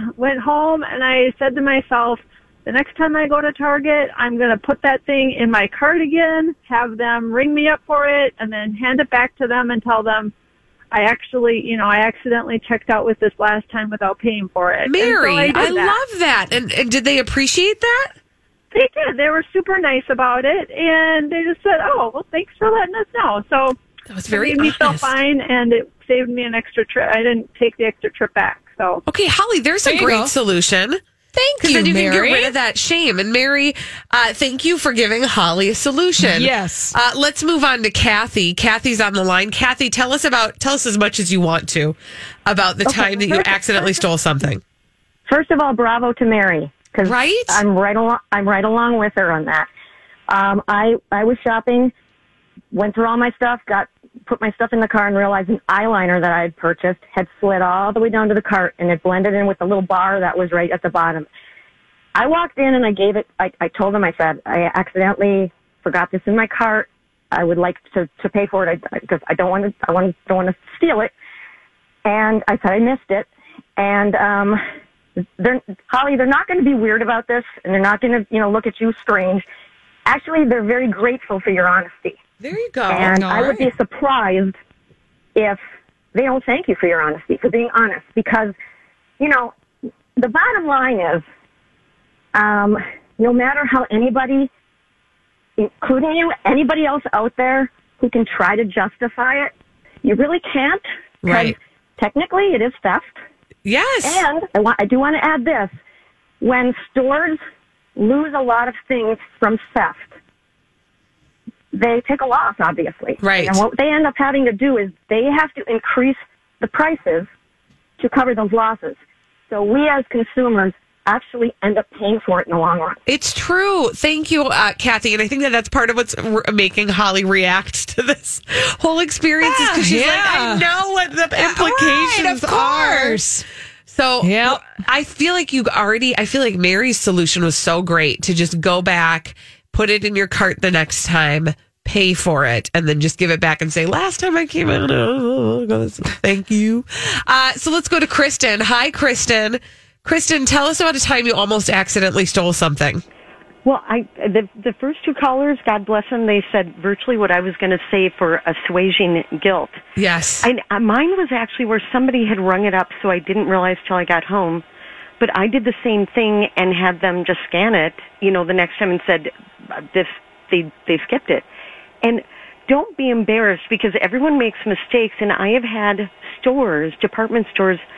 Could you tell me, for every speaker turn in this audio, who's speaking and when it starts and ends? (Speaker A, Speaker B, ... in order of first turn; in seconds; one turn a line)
Speaker A: 0.2-10.3
Speaker A: 10.9-16.0
Speaker B: 14.9-18.1
Speaker A: 18.7-29.0
Speaker B: 24.1-25.1
Speaker B: 29.1-31.0
Speaker C: 29.8-30.3
Speaker C: 31.4-32.5
Speaker B: 31.6-44.6
Speaker C: 36.2-37.0
Speaker D: 43.1-43.7
Speaker D: 45.3-49.7
Speaker B: 47.0-47.6
Speaker D: 50.3-51.9
Speaker D: 52.7-61.3
Speaker D: 62.1-71.1
Speaker D: 72.0-74.6
Speaker D: 75.4-79.5
Speaker D: 80.1-82.2
Speaker B: 82.4-83.3
Speaker D: 82.9-84.6
Speaker C: 83.1-83.7
Speaker D: 86.1-88.5
Speaker D: 89.2-89.5
Speaker D: 90.2-91.2
Speaker D: 92.3-94.5
Speaker D: 95.6-99.5
Speaker D: 100.0-103.2
Speaker B: 101.2-101.6
Speaker B: 103.7-104.2
Speaker D: 104.0-105.7
Speaker D: 106.4-107.4
Speaker D: 108.0-110.2
Speaker D: 111.7-117.3
Speaker B: 113.2-113.6
Speaker D: 118.0-119.0
Speaker D: 119.5-123.0
Speaker B: 123.1-133.2
Speaker C: 129.4-130.7
Speaker C: 131.3-133.4
Speaker B: 133.9-153.0
Speaker C: 134.2-134.7
Speaker E: 153.7-159.8
Speaker B: 160.0-160.5
Speaker E: 160.4-164.7
Speaker E: 165.2-171.5
Speaker E: 172.0-177.8